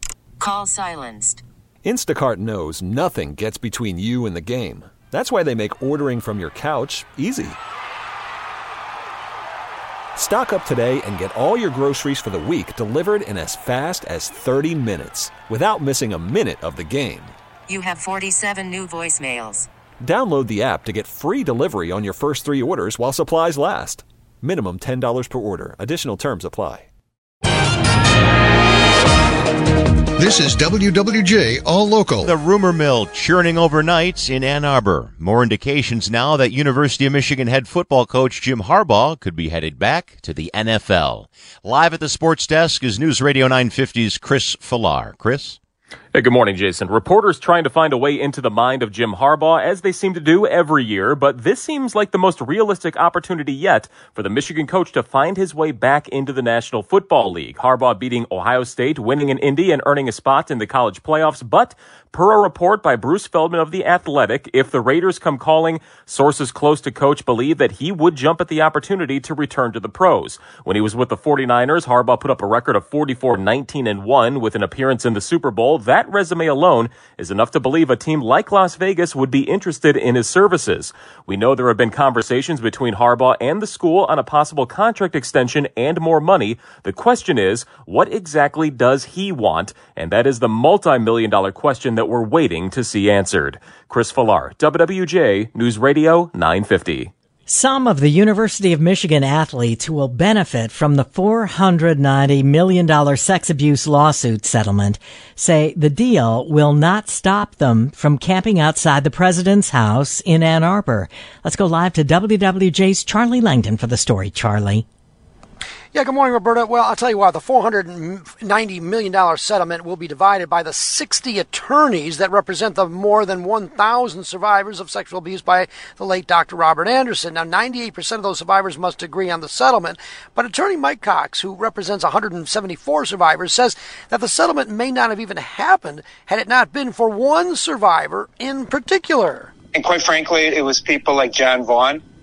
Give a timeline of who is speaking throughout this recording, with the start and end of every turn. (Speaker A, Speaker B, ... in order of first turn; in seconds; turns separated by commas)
Speaker A: 0.4-1.4, Speaker B: 1.8-7.6, Speaker B: 10.2-17.3, Speaker A: 17.7-19.7, Speaker B: 20.0-26.9, Speaker C: 30.2-32.3, Speaker D: 32.2-45.6, Speaker E: 46.1-97.1, Speaker F: 97.5-114.8, Speaker G: 115.9-139.5, Speaker H: 139.7-142.0